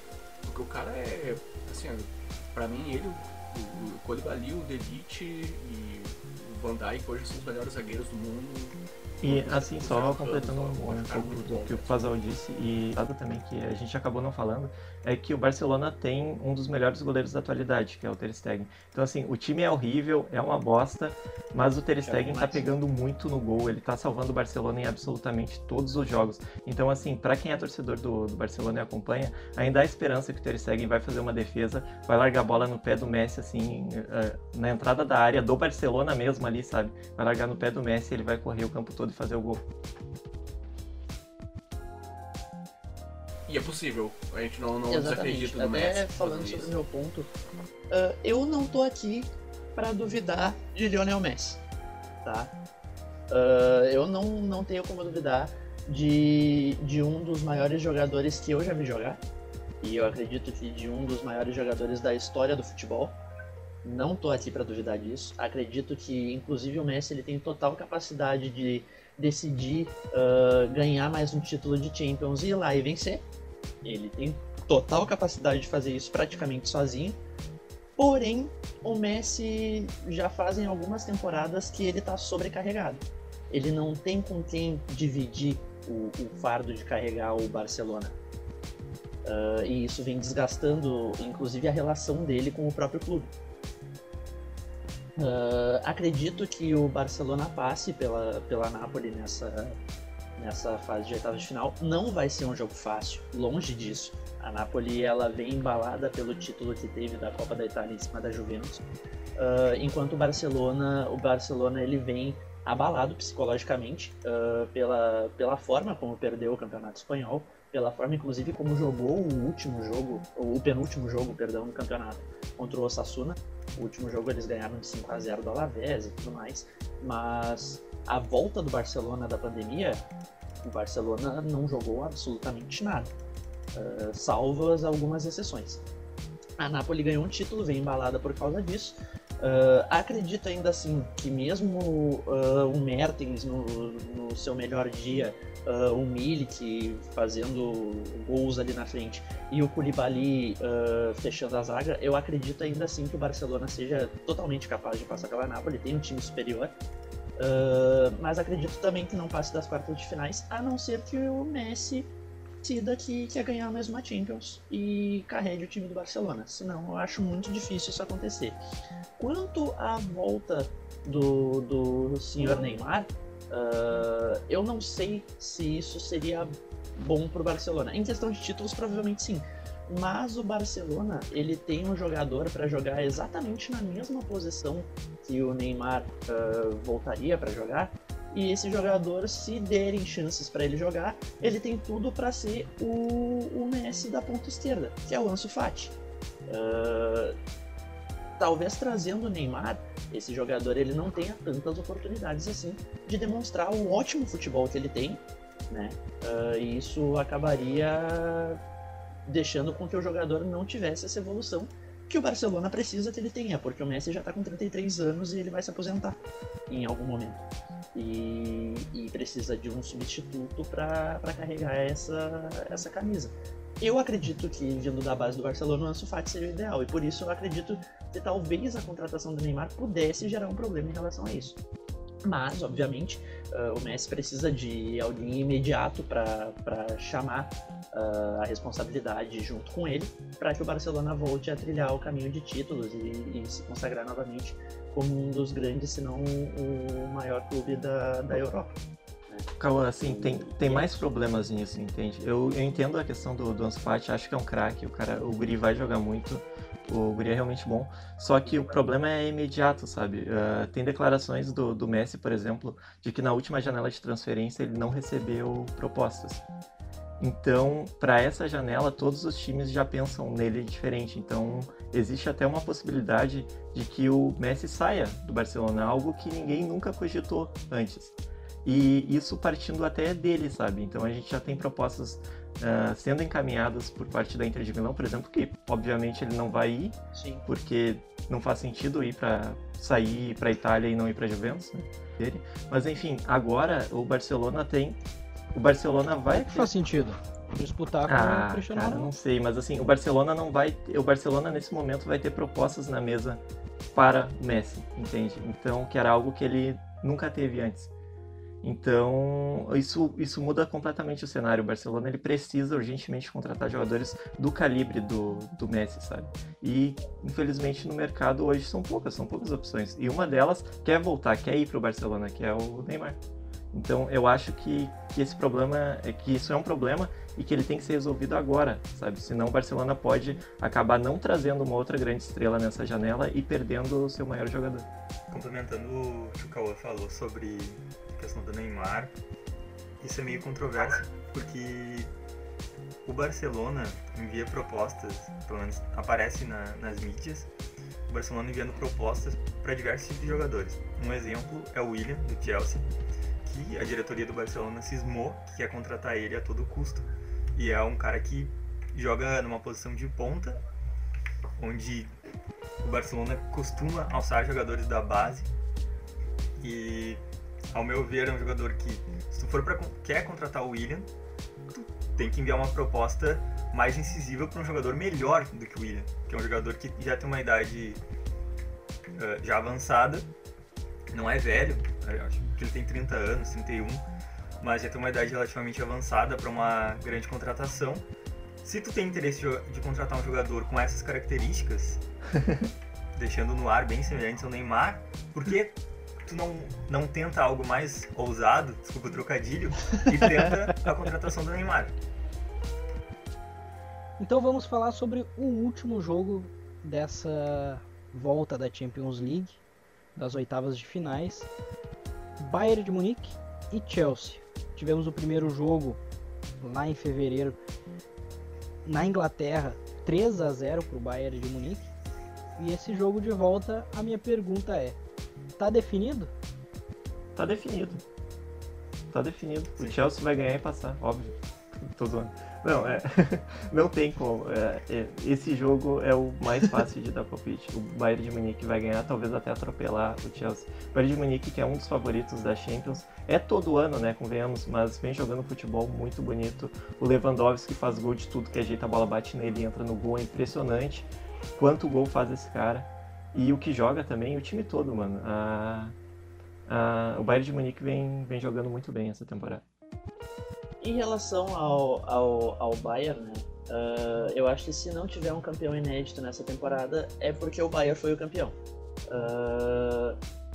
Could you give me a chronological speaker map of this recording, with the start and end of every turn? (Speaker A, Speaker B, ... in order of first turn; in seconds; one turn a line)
Speaker A: 0.4-12.0
Speaker B: 9.2-39.6
Speaker C: 22.1-22.7
Speaker A: 43.5-46.8
Speaker C: 44.9-47.3
Speaker C: 47.9-51.6
Speaker C: 52.2-52.5
Speaker C: 53.3-59.2
Speaker C: 59.8-63.2
Speaker C: 63.8-73.2
Speaker C: 73.8-77.2
Speaker C: 78.0-88.2
Speaker C: 89.2-93.3
Speaker C: 95.2-99.8
Speaker C: 100.4-108.8
Speaker C: 109.4-130.0
Speaker C: 130.6-133.1
Speaker C: 133.8-135.8
Speaker C: 136.6-156.7
Speaker C: 157.4-162.1
Speaker C: 162.6-168.6
Speaker C: 169.2-195.9
Speaker C: 196.5-197.4
Speaker C: 198.4-208.6
Speaker C: 209.2-231.6
Speaker C: 232.2-248.7
Speaker B: 249.6-266.4
Speaker C: 250.1-251.1
Speaker C: 258.5-258.7
Speaker B: 267.2-278.1
Speaker B: 278.6-295.0
Speaker C: 287.1-287.5
Speaker B: 295.5-296.7
Speaker D: 296.3-299.1
Speaker B: 298.1-303.4
Speaker B: 303.9-307.9
Speaker B: 308.6-323.2
Speaker B: 323.7-334.9
Speaker E: 335.3-339.1
Speaker E: 340.0-342.1
Speaker E: 343.1-347.5
Speaker E: 348.1-352.9
Speaker E: 353.4-360.6
Speaker E: 361.6-362.1
Speaker E: 362.8-365.5
Speaker E: 366.6-367.2
Speaker E: 367.7-371.1
Speaker E: 371.7-378.0
Speaker E: 379.1-380.3
Speaker E: 381.1-384.0
Speaker E: 384.6-388.1
Speaker E: 388.6-392.0
Speaker E: 393.2-401.9
Speaker D: 404.2-409.6
Speaker D: 410.2-411.5
Speaker D: 412.4-416.0
Speaker D: 416.6-417.6
Speaker D: 418.9-421.9
Speaker D: 422.6-425.0
Speaker D: 425.6-426.3
Speaker B: 427.4-428.0
Speaker B: 429.1-456.0
Speaker E: 429.8-430.0
Speaker B: 456.7-459.6
Speaker C: 460.8-468.6
Speaker C: 469.1-470.2